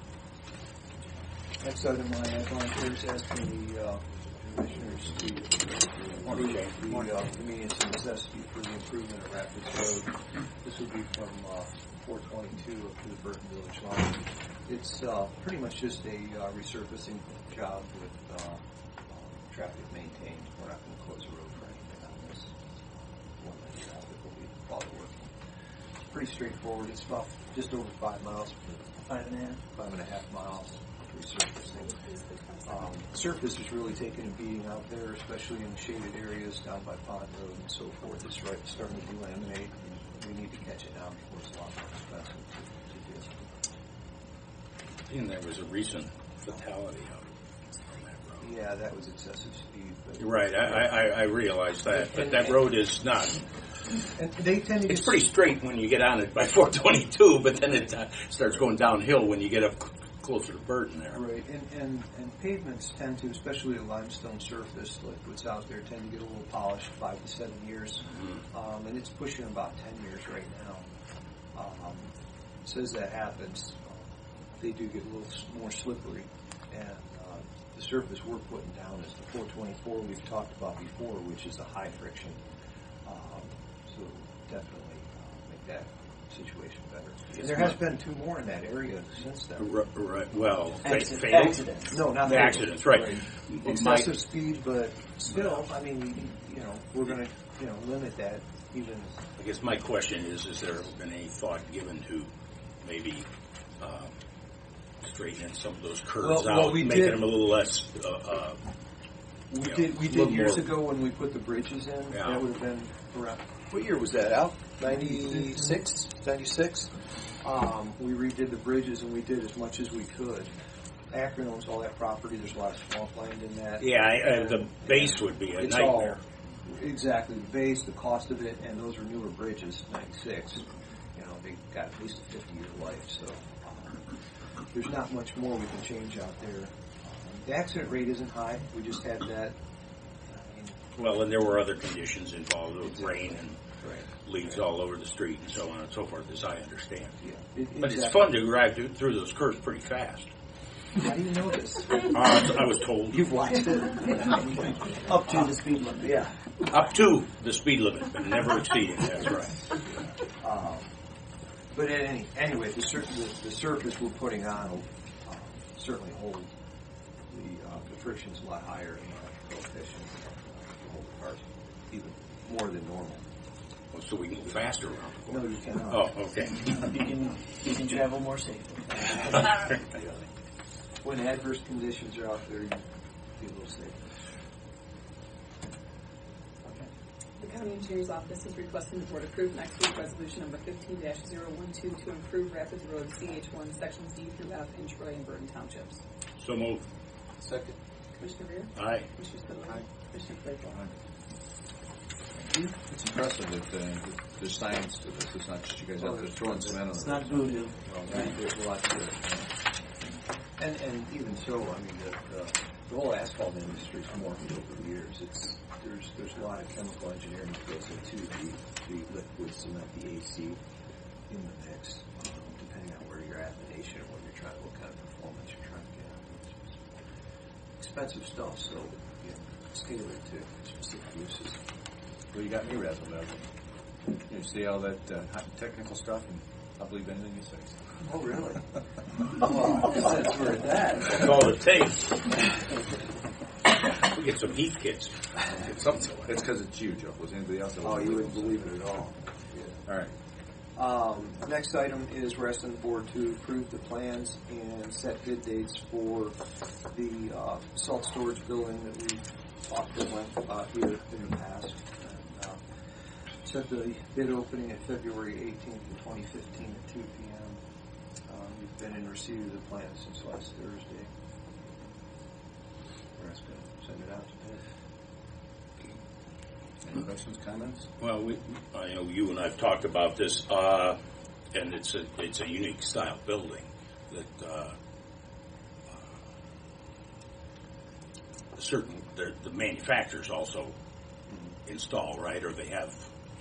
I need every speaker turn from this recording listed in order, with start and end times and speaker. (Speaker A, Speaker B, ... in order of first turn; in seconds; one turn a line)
Speaker A: 1.6-25.3
Speaker B: 6.2-7.1
Speaker A: 26.0-31.9
Speaker C: 29.1-29.6
Speaker D: 31.7-33.0
Speaker A: 32.6-43.5
Speaker B: 45.1-48.5
Speaker A: 48.4-51.1
Speaker B: 50.2-53.4
Speaker A: 51.9-52.6
Speaker A: 54.2-55.3
Speaker B: 54.9-61.2
Speaker A: 61.1-70.9
Speaker A: 71.5-72.1
Speaker A: 72.7-82.4
Speaker A: 83.0-89.7
Speaker B: 87.3-87.8
Speaker B: 89.6-94.1
Speaker C: 90.8-91.9
Speaker A: 91.9-99.2
Speaker B: 95.3-95.7
Speaker B: 99.4-102.3
Speaker B: 102.8-103.3
Speaker B: 103.8-104.1
Speaker B: 105.0-108.6
Speaker A: 106.2-107.2
Speaker A: 109.5-120.5
Speaker B: 109.6-110.7
Speaker B: 112.1-112.5
Speaker A: 121.1-130.6
Speaker B: 123.8-126.2
Speaker A: 131.2-134.1
Speaker A: 134.7-139.6
Speaker A: 140.3-140.8
Speaker B: 141.0-143.6
Speaker A: 142.8-143.3
Speaker A: 143.8-144.6
Speaker B: 144.2-147.2
Speaker A: 147.2-148.4
Speaker B: 147.8-150.3
Speaker A: 151.0-152.2
Speaker B: 152.0-153.4
Speaker A: 153.1-156.3
Speaker C: 154.3-156.2
Speaker B: 156.6-159.6
Speaker A: 160.4-160.9
Speaker A: 161.7-166.5
Speaker A: 167.3-173.2
Speaker B: 173.9-176.8
Speaker A: 175.3-176.1
Speaker C: 176.6-180.3
Speaker A: 181.0-182.8
Speaker A: 183.4-184.0
Speaker D: 187.4-196.0
Speaker B: 196.4-196.9
Speaker D: 198.2-200.8
Speaker B: 198.8-199.1
Speaker E: 202.4-207.4
Speaker A: 206.0-206.9
Speaker C: 206.9-208.3
Speaker A: 207.8-209.5
Speaker A: 210.6-220.6
Speaker A: 221.3-227.0
Speaker A: 227.8-231.6
Speaker E: 232.3-233.5
Speaker E: 234.3-237.9
Speaker A: 238.0-238.6
Speaker A: 239.2-241.4
Speaker B: 241.0-242.5
Speaker B: 243.7-246.3
Speaker E: 245.6-249.1
Speaker A: 247.8-249.8
Speaker E: 249.9-250.1
Speaker A: 250.8-256.4
Speaker A: 256.9-262.6
Speaker A: 263.4-267.6
Speaker A: 268.3-271.1
Speaker A: 273.2-274.6
Speaker E: 276.8-277.9
Speaker B: 278.0-281.0
Speaker B: 281.5-284.8
Speaker B: 285.9-286.1
Speaker B: 288.6-290.8
Speaker B: 291.6-293.1